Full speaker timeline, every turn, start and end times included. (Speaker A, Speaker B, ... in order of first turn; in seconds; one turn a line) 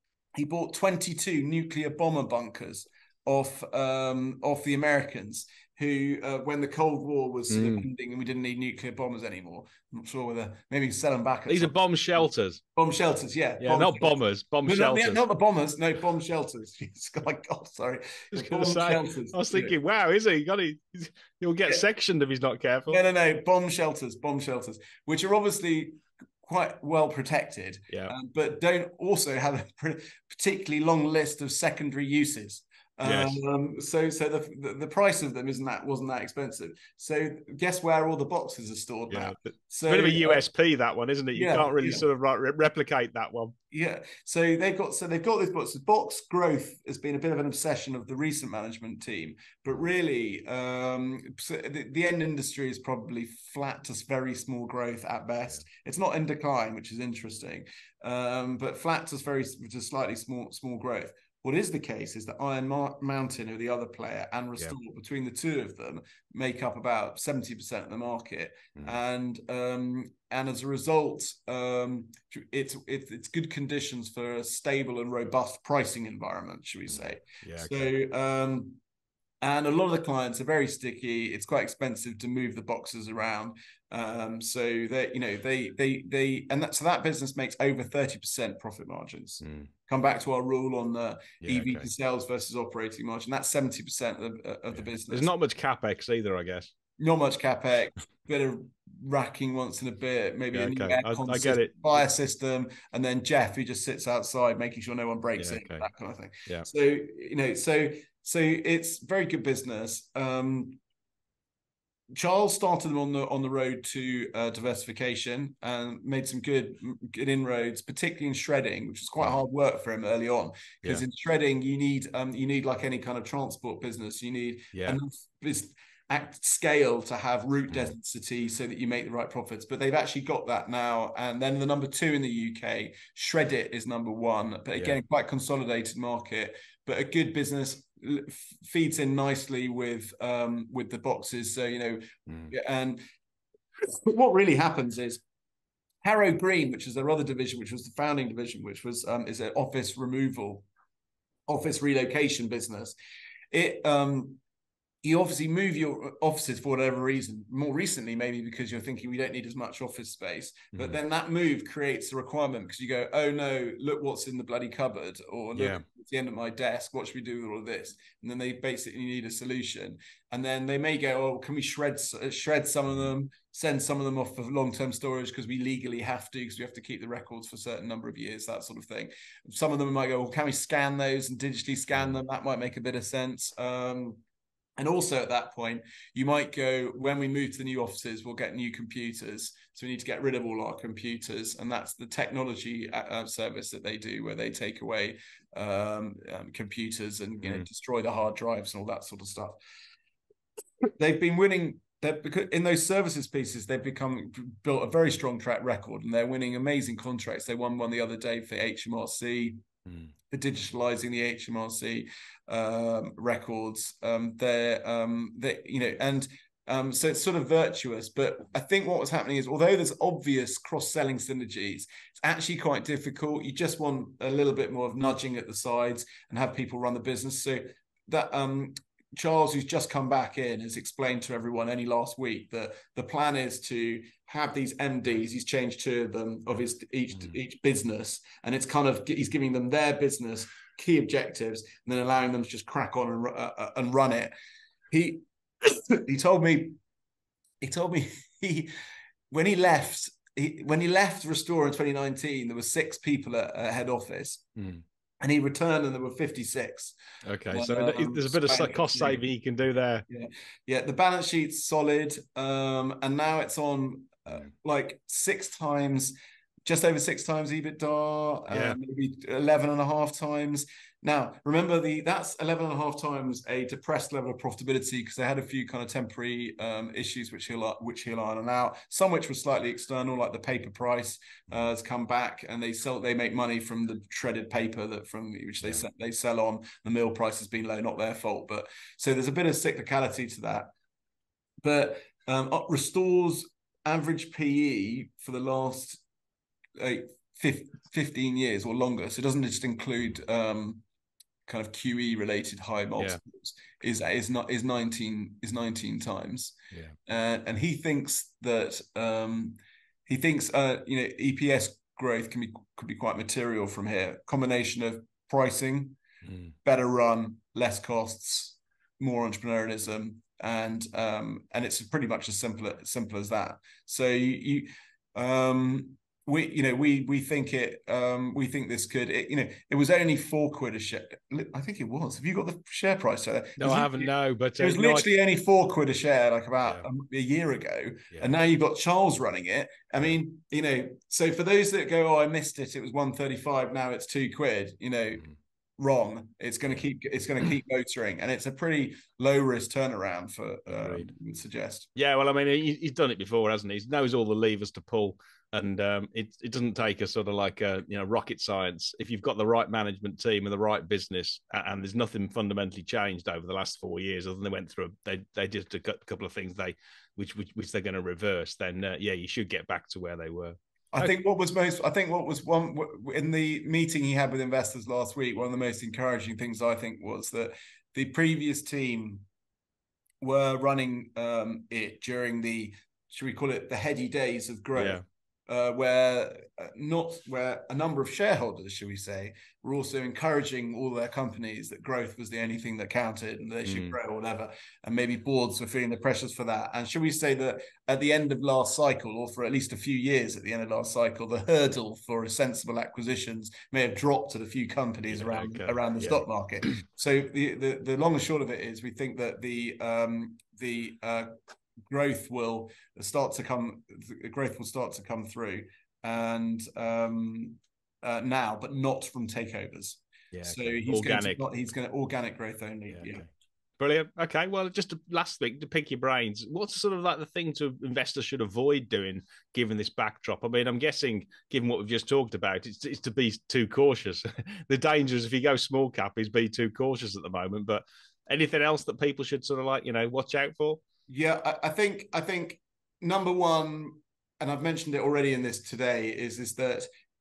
Speaker A: 0.3-12.2
Speaker B: 7.5-7.8
Speaker B: 11.5-12.6
Speaker A: 12.8-19.7
Speaker B: 13.6-15.2
Speaker B: 18.3-23.0
Speaker A: 22.9-40.4
Speaker B: 33.0-33.4
Speaker B: 39.1-43.5
Speaker A: 41.3-42.0
Speaker A: 43.7-78.8
Speaker B: 76.9-77.8
Speaker A: 79.4-95.3
Speaker B: 89.4-89.7
Speaker B: 91.4-91.9
Speaker B: 95.1-96.7
Speaker A: 97.0-110.8
Speaker B: 100.5-101.7
Speaker B: 105.4-105.9
Speaker A: 112.1-143.0
Speaker B: 124.7-125.0
Speaker B: 142.3-142.5
Speaker A: 143.8-145.2
Speaker A: 146.0-150.6
Speaker A: 151.5-152.9
Speaker A: 153.5-154.4
Speaker A: 155.0-184.2
Speaker B: 165.5-165.8
Speaker A: 184.8-199.6
Speaker A: 201.0-209.6
Speaker A: 210.3-244.3
Speaker A: 244.9-246.8
Speaker A: 247.6-248.7
Speaker A: 249.3-254.4
Speaker B: 254.6-254.8
Speaker A: 255.2-257.0
Speaker B: 257.2-260.0
Speaker A: 257.5-259.3
Speaker A: 260.1-266.1
Speaker A: 266.6-290.7
Speaker B: 268.5-268.8
Speaker A: 291.6-296.0
Speaker A: 296.8-300.8
Speaker A: 301.5-316.0
Speaker B: 316.2-316.5
Speaker A: 316.6-345.3
Speaker B: 333.6-335.1
Speaker A: 345.8-351.9
Speaker B: 350.7-351.1
Speaker B: 351.9-371.1
Speaker A: 370.9-379.2
Speaker A: 380.2-411.3
Speaker B: 384.8-385.0
Speaker B: 393.6-394.0
Speaker B: 405.1-406.2
Speaker A: 411.9-423.3
Speaker B: 420.3-421.4
Speaker B: 422.9-423.2
Speaker B: 423.8-440.8
Speaker A: 441.1-446.9